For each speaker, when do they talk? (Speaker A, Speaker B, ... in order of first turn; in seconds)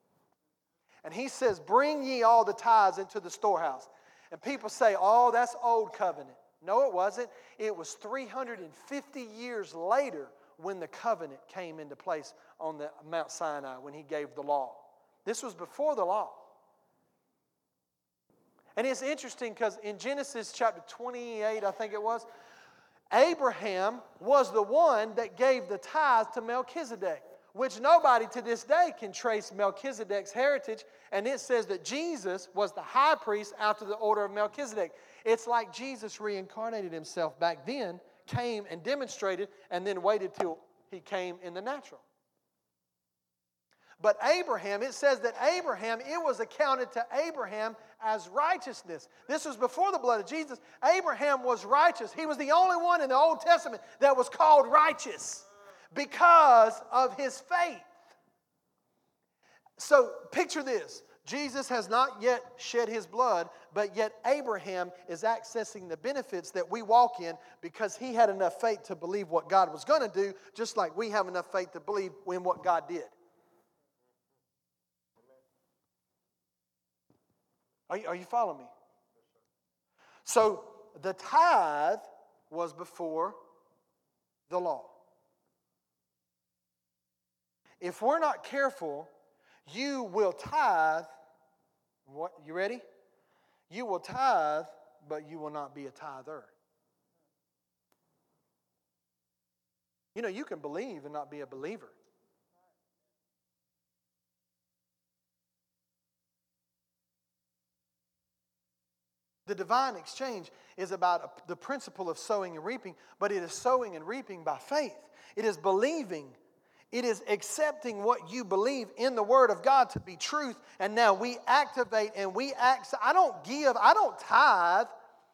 Speaker A: 1.0-16.4, 18.8-22.3, 23.1-42.0, 44.0-57.9, 59.8-73.1, 77.9-78.7, 80.2-83.4, 84.5-84.9, 87.8-89.1, 89.7-91.1, 92.0-92.8, 93.7-96.5, 100.1-102.0, 109.5-116.3, 116.9-124.9